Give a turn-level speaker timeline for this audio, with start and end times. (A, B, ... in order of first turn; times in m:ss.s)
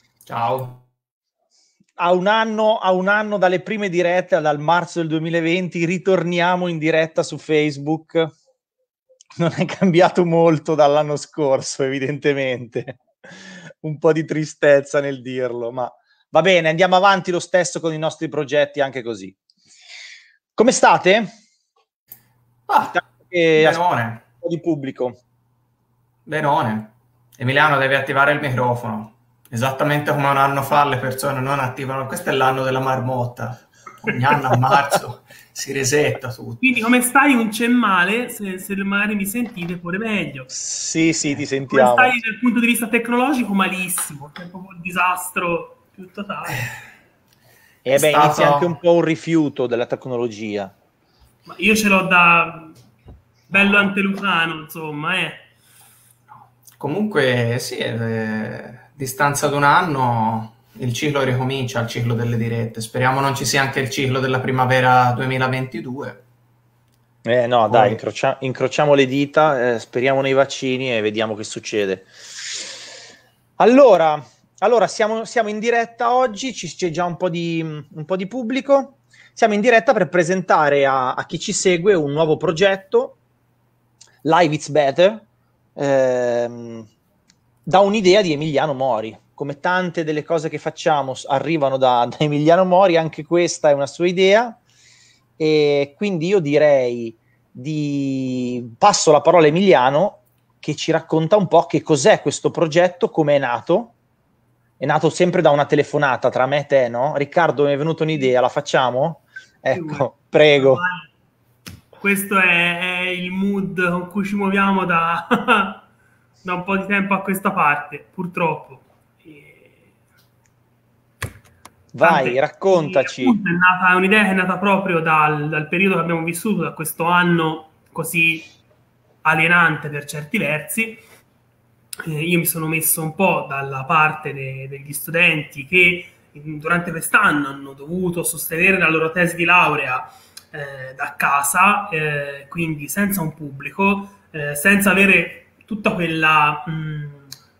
0:00.3-0:00.8 A
0:02.0-0:08.3 B
0:09.4-0:19.4 B
0:20.6-0:21.3 B
0:22.7-0:24.2 A
0:22.9-0:25.2 B
0:26.2-0:36.6 A
0:36.6-0:40.5 C
0:40.5-0:42.2 B
0:41.6-0:46.7 C
0:47.8-0:50.7 B
0:48.0-0:48.7 A
0:51.4-0:52.8 C
0:53.5-0:55.5 C
0:56.3-1:06.2 A
1:07.2-1:12.1 B
1:07.7-1:08.0 A
1:13.6-1:23.2 B
1:24.2-1:25.2 B
1:25.8-1:26.9 B
1:27.6-1:34.6 B
1:35.4-1:44.0 B
1:44.8-1:50.8 B
1:49.7-1:51.1 C
1:52.0-1:55.8 C
1:56.4-2:00.0 C
2:01.9-2:03.4 B
2:02.0-2:08.5 C
2:09.2-2:11.0 C
2:12.0-2:27.3 C